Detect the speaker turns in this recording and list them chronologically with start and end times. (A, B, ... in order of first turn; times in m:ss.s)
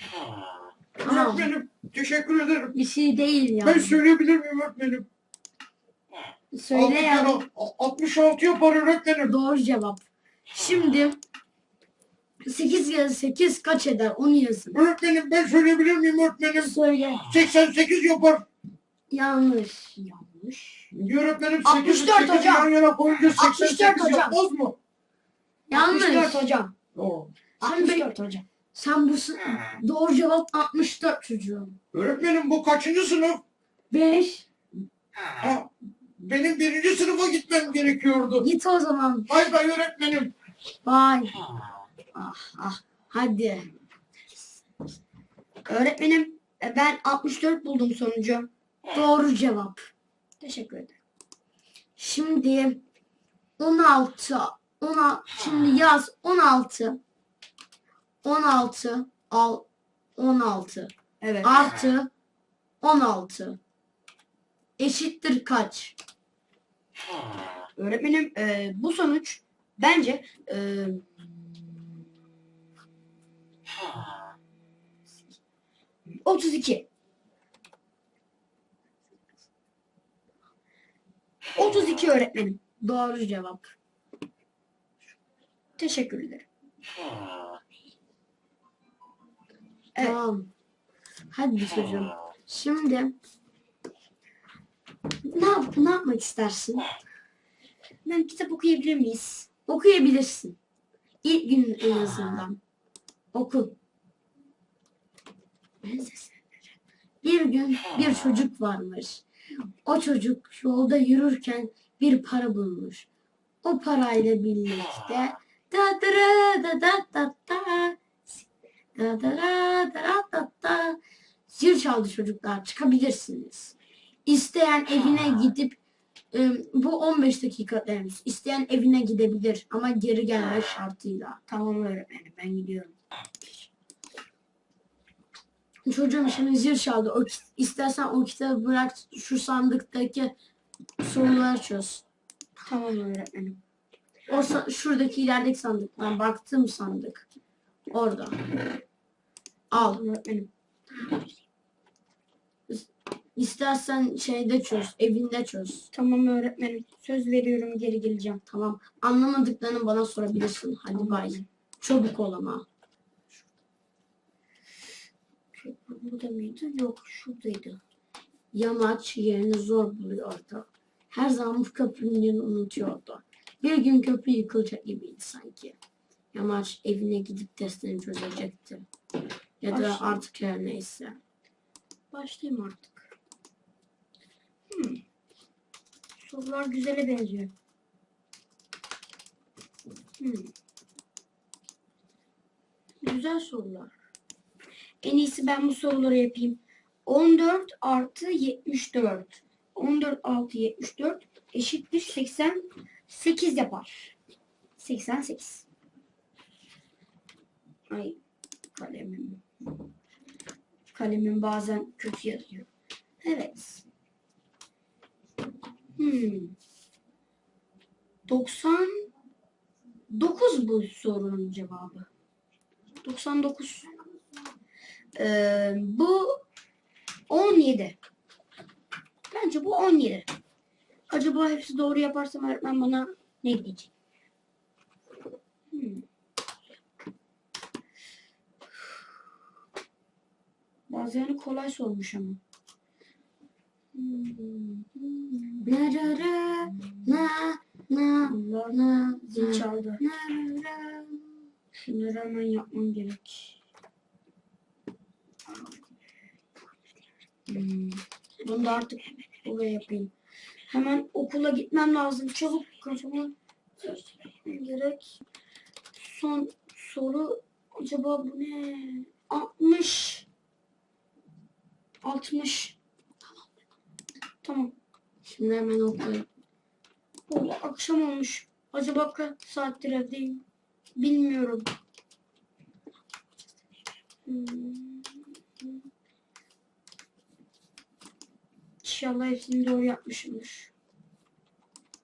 0:01.0-0:01.5 A
0:01.0-0:02.7 B
0:02.7-0:04.0 A
0:03.6-0:05.1 B
0:06.5-0:07.4 A
0:06.7-0:09.3 B
0:09.3-0:11.2 A
0:12.4-0:14.8 A
0:14.7-0:18.4 B
0:16.6-0:17.2 A
0:19.1-0:20.9 A
0:20.9-0:24.8 B
0:21.6-0:22.7 C
0:23.3-0:24.4 C
0:25.7-0:26.4 A
0:25.7-0:26.7 C
0:26.9-0:27.3 B
0:27.6-0:28.4 C
0:27.6-0:28.1 A
0:28.7-0:31.8 A
0:31.9-0:33.4 B
0:33.9-0:34.5 A
0:35.4-0:38.5 B
0:38.4-0:39.3 A
0:39.3-0:40.3 B
0:40.8-0:41.4 A
0:42.2-0:43.7 A
0:45.6-0:48.5 C
0:48.9-0:49.8 A
0:50.4-0:51.0 C
0:52.0-0:52.8 A
0:53.6-0:57.0 A
0:58.2-1:00.9 A
1:01.2-1:01.7 C
1:01.4-1:02.1 A
1:02.8-1:03.6 A
1:04.8-1:06.0 A
1:07.8-1:11.0 C
1:16.2-1:16.9 C
1:21.6-1:22.6 C
1:22.8-1:23.7 A
1:25.8-1:26.4 C
1:30.0-1:30.5 A
1:31.3-1:33.1 A
1:35.3-1:36.9 A
1:38.0-1:39.5 C
1:39.7-1:40.6 A
1:41.2-1:42.6 A
1:43.3-1:43.7 A
1:46.0-1:46.2 C
1:47.2-1:49.2 A
1:49.8-1:53.1 A
1:53.6-1:58.0 A
1:59.0-2:03.7 A
2:04.2-2:05.8 A
2:06.3-2:11.4 A
2:11.5-2:12.9 C
2:15.8-2:20.3 A
2:21.0-2:22.0 A
2:22.6-2:23.6 C
2:24.3-2:27.2 A
2:27.9-2:28.4 A
2:29.7-2:30.0 A
2:29.7-2:30.5 C
2:32.7-2:35.9 A
2:35.9-2:38.4 C
2:38.5-2:42.6 A
2:40.9-2:41.4 C
2:45.6-2:47.8 C
2:48.5-2:55.7 A
2:56.3-2:58.8 A
2:59.6-3:01.2 A
2:59.7-3:00.2 C
3:02.1-3:03.1 C
3:04.7-3:05.0 C
3:06.2-3:07.5 C
3:10.2-3:10.5 C
3:13.0-3:13.9 C
3:15.0-3:24.1 C
3:24.8-3:25.6 C
3:27.9-3:28.2 C
3:28.7-3:29.4 C
3:30.9-3:32.7 C
3:33.2-3:33.8 C
3:36.0-3:36.5 C
3:38.2-3:39.1 C
3:40.1-3:42.1 C
3:43.0-3:43.9 C
3:45.2-3:46.4 C
3:47.3-3:48.0 C
3:49.3-3:50.3 C
3:51.1-3:53.9 C
3:55.7-3:56.0 C
4:00.9-4:02.4 C
4:03.9-4:05.7 C
4:05.6-4:11.4 A
4:08.2-4:10.0 C
4:11.7-4:13.6 C
4:15.5-4:15.8 C
4:17.5-4:20.1 C
4:20.7-4:25.2 C
4:26.0-4:30.2 C
4:32.0-4:32.8 C
4:34.4-4:34.7 C
4:35.2-4:36.3 A
4:37.3-4:40.4 C
4:41.0-4:41.7 C
4:44.2-4:45.7 C
4:48.8-4:50.7 C